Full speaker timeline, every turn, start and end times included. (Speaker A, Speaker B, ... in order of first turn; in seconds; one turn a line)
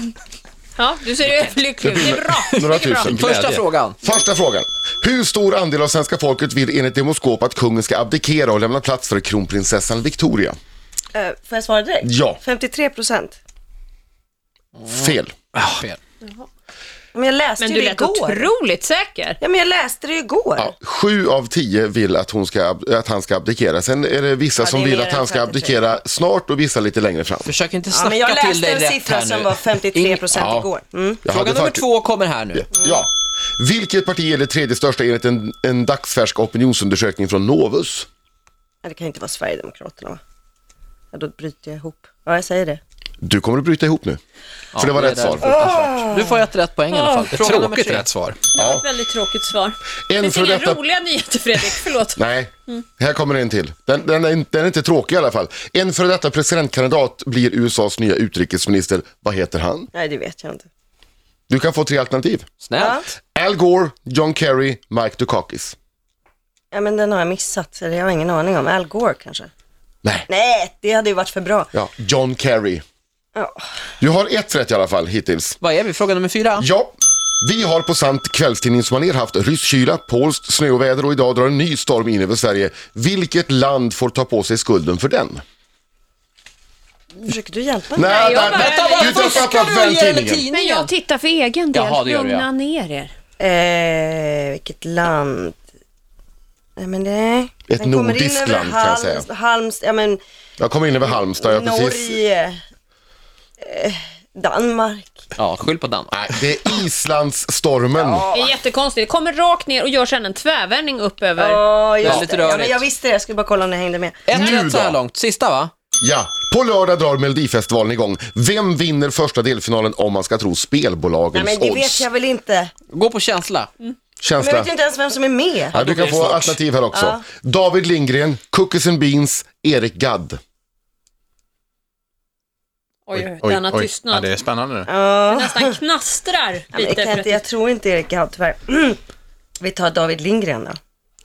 Speaker A: 0.8-3.1
Speaker B: 1.8-3.3
Speaker C: 3.0-4.0
Speaker D: 3.1-3.6
Speaker B: 4.0-10.6
Speaker E: 11.1-13.4
Speaker B: 12.0-12.4
Speaker C: 14.8-16.0
Speaker B: 14.9-15.3
Speaker D: 15.6-15.8
Speaker E: 17.1-18.4
Speaker A: 17.6-19.4
Speaker E: 19.4-20.7
Speaker B: 20.6-27.5
Speaker E: 24.6-25.9
Speaker C: 27.4-30.7
Speaker E: 27.9-31.2
Speaker B: 31.2-31.8
Speaker C: 31.2-32.7
Speaker B: 32.8-38.1
Speaker E: 38.8-40.2
Speaker E: 41.1-42.8
Speaker B: 43.2-44.2
Speaker C: 44.7-48.1
Speaker B: 44.8-45.6
Speaker E: 45.4-46.4
Speaker A: 46.9-47.3
Speaker D: 47.3-48.4
Speaker A: 48.5-52.8
Speaker B: 48.5-48.8
Speaker B: 50.1-50.8
Speaker B: 52.1-59.9
Speaker E: 59.9-60.7
Speaker B: 61.5-62.5
Speaker C: 62.6-63.0
Speaker E: 62.8-63.1
Speaker B: 63.3-65.7
Speaker E: 66.7-69.5
Speaker E: 70.3-71.7
Speaker B: 71.7-72.8
Speaker E: 73.3-73.6
Speaker B: 74.0-75.6
Speaker C: 75.6-76.7
Speaker B: 76.6-85.4
Speaker E: 87.2-88.6
Speaker B: 87.9-90.4
Speaker A: 88.1-89.6
Speaker C: 88.5-90.9
Speaker A: 90.5-93.1
Speaker C: 91.7-92.5
Speaker E: 93.4-95.6
Speaker E: 96.8-100.2
Speaker B: 97.7-99.2
Speaker B: 100.6-102.2
Speaker E: 101.0-102.6
Speaker E: 103.6-105.2
Speaker C: 105.3-106.1
Speaker B: 106.1-108.2
Speaker E: 107.9-108.6
Speaker A: 108.3-111.6
Speaker E: 111.4-114.3
Speaker C: 112.0-112.8
Speaker C: 114.2-115.7
Speaker B: 114.3-115.0
Speaker B: 116.0-122.0
Speaker E: 121.3-122.7
Speaker C: 122.9-123.7
Speaker B: 124.2-124.7
Speaker E: 124.4-125.8
Speaker B: 125.7-130.4
Speaker C: 125.7-126.5
Speaker E: 126.9-127.2
Speaker A: 133.1-134.3
Speaker D: 133.1-134.9
Speaker E: 134.8-135.8
Speaker A: 135.2-137.3
Speaker E: 136.7-139.0
Speaker E: 139.6-140.8